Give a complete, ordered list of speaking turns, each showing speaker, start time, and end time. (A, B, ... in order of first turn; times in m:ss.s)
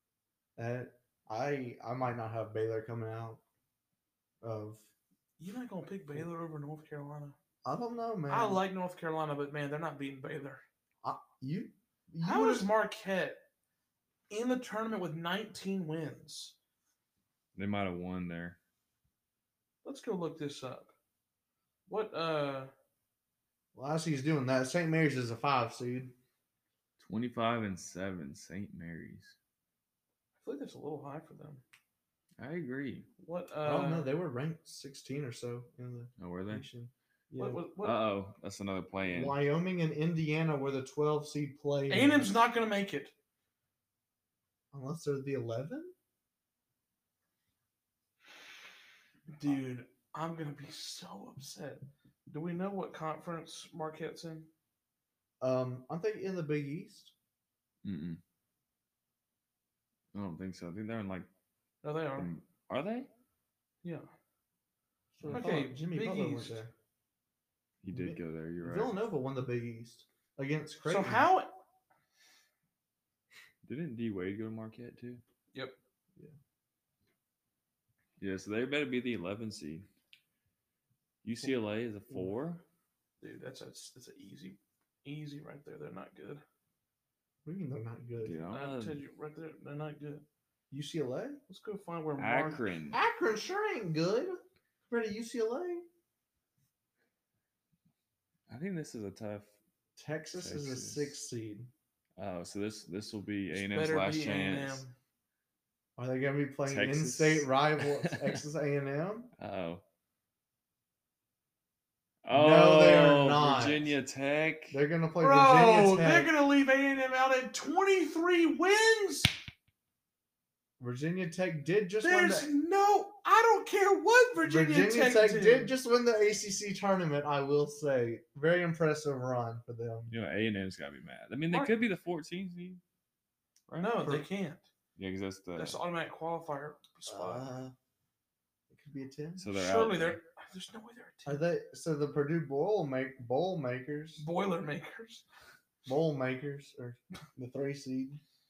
0:00.6-0:03.4 A
0:04.4-0:04.8 A
0:05.4-0:07.4 B
0:07.6-0:08.6 A
0:08.3-0:10.6 B
0:11.0-0:12.7 A
0:12.2-0:13.4 B
0:14.3-0:16.6 B
0:17.6-0:18.6 C
0:19.8-0:20.9 B
0:21.9-0:22.7 B
0:23.8-0:26.1 A
0:27.0-0:29.4 C
0:30.4-0:31.6 B
0:32.4-0:33.1 C
0:33.2-0:34.1 B
0:33.6-0:37.6 A
0:36.2-0:36.7 C
0:37.4-0:38.0 B
0:37.8-0:39.4 C
0:39.1-0:42.5 A
0:41.9-0:43.1 B
0:44.7-0:45.9 A
0:49.3-0:54.5 B
0:55.4-0:57.1 A
0:57.8-0:58.2 C
1:00.1-1:01.3 C
1:01.8-1:02.3 B
1:02.2-1:03.1 C
1:05.2-1:06.7 A
1:05.2-1:05.5 C
1:05.3-1:06.6 B
1:07.8-1:09.0 C
1:07.9-1:11.3 A
1:10.9-1:11.5 B
1:13.6-1:15.2 C
1:18.2-1:19.9 C
1:21.2-1:22.6 C
1:23.2-1:26.4 B
1:27.4-1:28.4 A
1:28.2-1:29.0 C
1:28.5-1:30.2 B
1:30.7-1:31.4 A
1:31.5-1:32.6 B
1:32.2-1:33.0 C
1:32.9-1:35.9 A
1:38.5-1:39.5 C
1:40.0-1:41.7 A
1:40.4-1:41.2 C
1:42.2-1:44.8 C
1:43.5-1:44.9 B
1:46.0-1:49.3 A
1:46.7-1:48.4 C
1:49.4-1:49.8 C
1:52.2-1:54.8 C
1:52.3-1:53.9 A
1:54.7-1:56.3 A
1:55.2-1:59.4 B
2:00.8-2:02.5 A
2:02.0-2:05.7 B
2:04.4-2:10.1 A
2:10.1-2:12.8 C
2:13.7-2:14.0 C
2:13.8-2:14.7 B
2:15.0-2:15.8 C
2:15.6-2:17.5 B
2:17.1-2:17.7 A
2:18.7-2:19.4 A
2:19.4-2:20.2 C
2:19.5-2:21.4 B
2:21.3-2:24.2 A
2:24.2-2:25.2 B
2:25.9-2:28.2 A